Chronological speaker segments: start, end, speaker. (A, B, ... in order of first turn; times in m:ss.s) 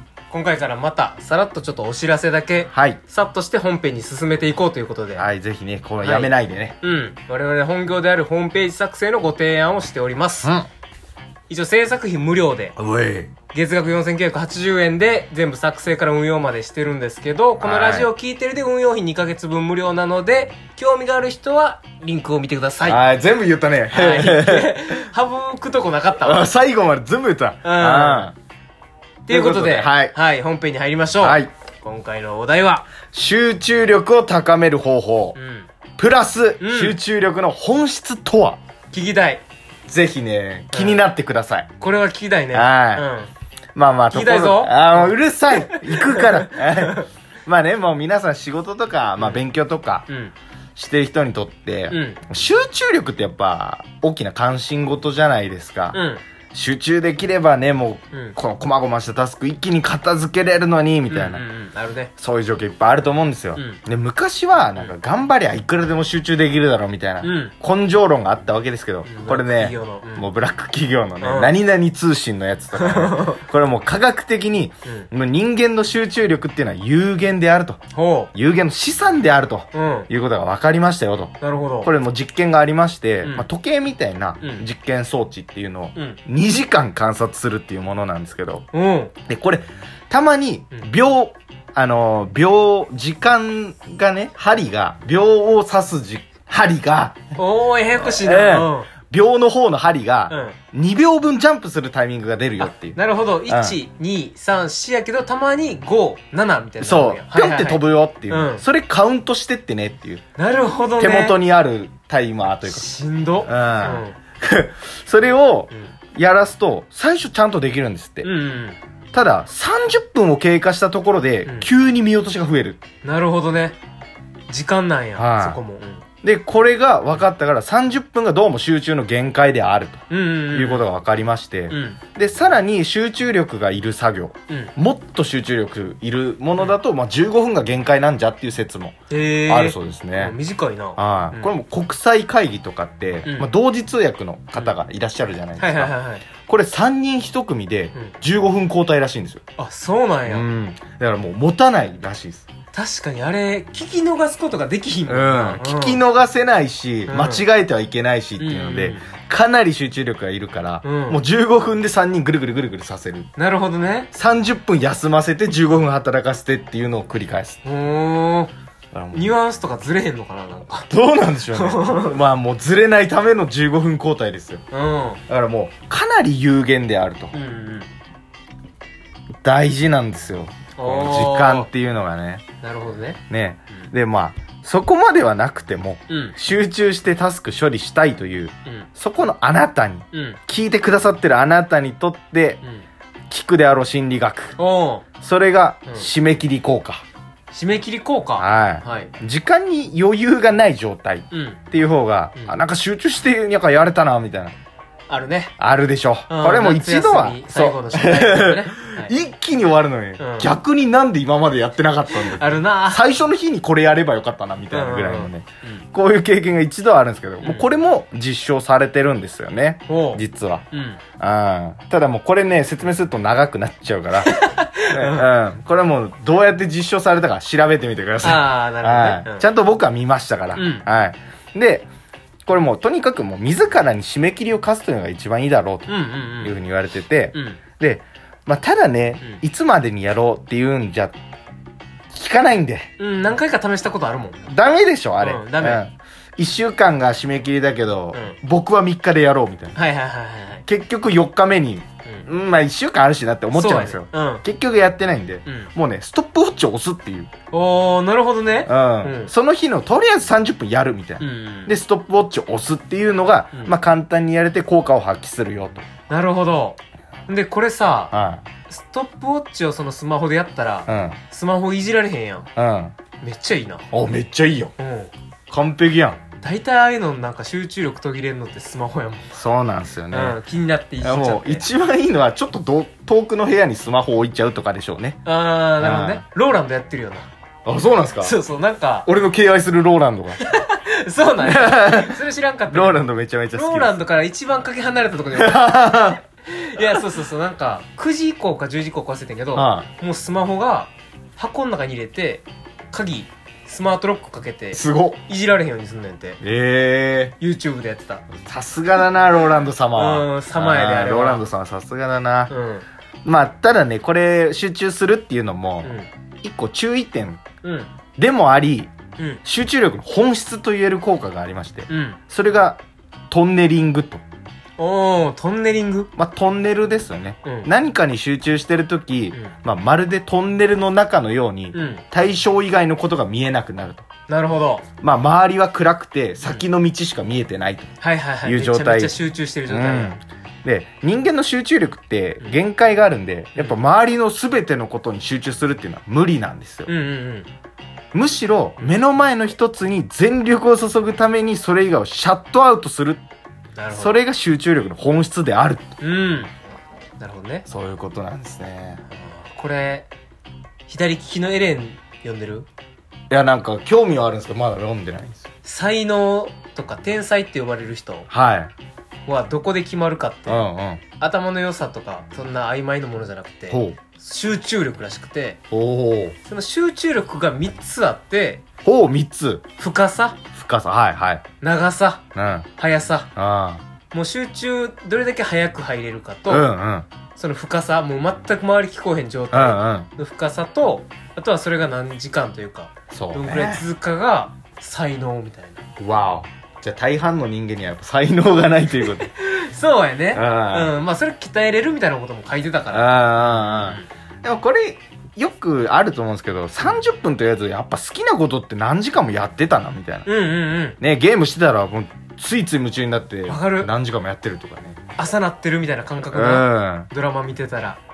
0:00.3-0:05.3 A
0:02.7-0:03.0 B
0:05.2-0:06.8 B
0:06.0-0:10.5 A
0:10.4-0:10.7 B
0:11.5-0:12.8 A
0:12.8-0:13.3 B
0:13.5-0:23.0 A
0:17.6-0:18.1 B
0:22.8-0:25.0 B
0:23.9-0:26.5 A
0:26.2-0:28.4 B
0:27.6-0:28.3 A
0:29.3-0:30.2 B
0:29.3-0:33.0 A
0:31.2-0:31.5 B
0:33.0-0:35.4 B
0:35.4-0:35.7 A
0:36.0-0:38.6 B
0:36.6-0:37.0 A
0:38.9-0:39.4 A
0:39.9-0:41.7 B
0:40.7-0:41.0 A
0:41.8-0:43.3 A
0:42.5-0:43.1 B
0:43.8-0:50.1 B
0:44.1-0:47.1 A
0:49.2-0:49.4 A
0:50.1-0:50.3 A
0:50.8-1:01.4 B
0:51.9-0:52.2 A
0:55.9-0:56.2 A
1:01.1-1:02.1 A
1:02.2-1:28.7 B
1:07.2-1:07.5 A
1:09.0-1:10.3 A
1:11.2-1:11.5 A
1:12.7-1:13.4 A
1:17.9-1:18.3 A
1:19.7-1:20.1 A
1:21.4-1:21.9 A
1:24.4-1:24.7 A
1:28.7-1:29.2 A
1:29.2-1:37.3 B
1:37.4-1:38.9 A
1:38.0-1:43.8 B
1:40.3-1:40.6 A
1:42.6-1:48.6 A
1:46.8-1:50.2 B
1:50.4-1:51.4 A
1:51.0-1:52.9 B
1:52.7-1:54.2 A
1:53.4-1:58.3 B
1:58.2-1:58.8 A
1:59.1-2:02.8 B
2:03.0-2:03.8 A
2:04.5-2:06.0 A
2:05.2-2:05.6 B
2:06.2-2:20.4 B
2:10.1-2:10.9 A
2:11.7-2:12.0 A
2:19.1-2:21.5 A
2:21.0-2:29.4 B
2:25.6-2:26.3 A
2:29.6-2:30.5 A
2:30.3-2:32.5 B
2:32.7-2:36.0 A
2:35.1-2:43.3 B
2:37.1-2:37.5 A
2:38.4-2:39.0 A
2:40.8-2:41.2 A
2:43.4-2:44.1 A
2:44.1-2:47.6 B
2:47.6-2:48.5 A
2:48.9-2:49.4 B
2:49.1-2:50.9 A
2:50.9-2:54.6 B
2:51.5-2:52.2 A
2:54.7-2:55.2 A
2:55.3-2:57.4 B
2:57.3-2:57.9 A
2:59.4-3:02.5 B
3:00.8-3:01.7 A
3:02.6-3:03.2 A
3:03.3-3:12.6 B
3:06.1-3:06.4 A
3:10.1-3:10.4 A
3:13.3-3:14.6 B
3:14.6-3:15.1 A
3:15.2-3:17.0 B
3:17.5-3:19.1 A
3:18.4-3:24.6 B
3:21.3-3:21.6 A
3:25.1-3:25.6 A
3:25.6-3:44.4 B
3:26.3-3:29.1 A
3:30.2-3:30.5 A
3:32.1-3:33.1 A
3:34.7-3:35.8 A
3:37.4-3:37.7 A
3:39.9-3:41.0 A
3:44.2-3:45.3 A
3:44.9-3:51.9 B
3:48.2-3:49.4 A
3:50.6-3:50.8 A
3:52.5-4:01.2 B
3:55.9-3:56.6 A
3:57.3-3:57.6 A
4:02.1-4:02.9 B
4:03.0-4:04.4 A
4:04.4-4:09.8 B
4:05.2-4:05.8 A
4:09.8-4:10.6 A
4:10.7-4:17.3 B
4:13.5-4:14.4 A
4:15.5-4:15.7 A
4:17.5-4:19.3 A
4:18.7-4:25.8 B
4:21.2-4:21.8 A
4:26.1-4:28.1 A
4:28.1-4:28.5 B
4:28.7-4:32.5 A
4:30.9-4:31.2 B
4:32.6-4:33.0 B
4:33.2-4:33.9 A
4:33.9-4:34.7 B
4:34.8-4:35.1 A
4:35.5-4:36.2 B
4:36.4-4:39.3 A
4:39.3-4:40.4 B
4:40.1-4:41.7 A
4:41.0-4:45.2 B
4:45.2-4:47.3 A
4:45.8-4:46.2 B
4:47.7-4:48.4 B
4:48.2-4:49.1 A
4:49.0-4:50.4 B
4:50.4-4:55.8 A
4:51.4-4:52.2 B
4:52.7-4:54.0 B
4:55.3-4:56.2 B
4:56.4-5:06.4 A
4:59.5-4:59.9 B
5:04.7-5:05.2 B
5:06.4-5:07.4 B
5:07.4-5:08.3 A
5:08.3-5:12.5 B
5:10.0-5:11.4 A
5:12.5-5:12.8 A
5:13.2-5:17.4 B
5:17.6-5:17.9 A
5:18.2-5:22.8 B
5:21.9-5:22.2 A
5:23.3-5:24.2 B
5:24.8-5:26.1 A
5:26.2-5:34.1 B
5:27.4-5:27.7 A
5:31.7-5:32.0 A
5:34.3-5:34.9 A
5:35.0-5:37.9 B
5:36.4-5:36.7 A
5:38.0-5:40.2 A
5:38.4-5:46.9 B
5:46.9-5:47.5 A
5:48.1-5:53.2 B
5:53.8-5:54.2 A
5:53.9-5:55.9 B
5:56.0-5:56.5 A
5:57.2-5:57.7 A
5:57.7-5:59.0 B
5:59.1-6:00.1 A
6:00.9-6:02.7 A
6:03.3-6:05.4 B
6:05.6-6:08.3 A
6:08.3-6:08.7 B
6:09.3-6:10.7 A
6:10.5-6:11.0 B
6:11.2-6:15.6 A
6:13.7-6:14.0 B
6:15.7-6:16.4 B
6:16.5-6:18.6 A
6:18.8-6:19.7 B
6:19.8-6:20.4 A
6:20.5-6:21.4 B
6:21.6-6:23.3 A
6:22.4-6:22.7 B
6:23.4-6:23.8 B
6:24.1-6:26.7 A
6:26.5-6:27.1 B
6:27.3-6:35.8 A
6:29.5-6:30.1 B
6:33.1-6:33.8 B
6:36.0-6:39.3 B
6:38.9-6:44.1 A
6:40.3-6:41.0 B
6:42.9-6:50.3 B
6:50.3-6:51.0 A
6:51.0-6:55.0 B
6:53.5-6:53.9 A
6:55.2-6:58.0 A
6:56.3-6:57.1 B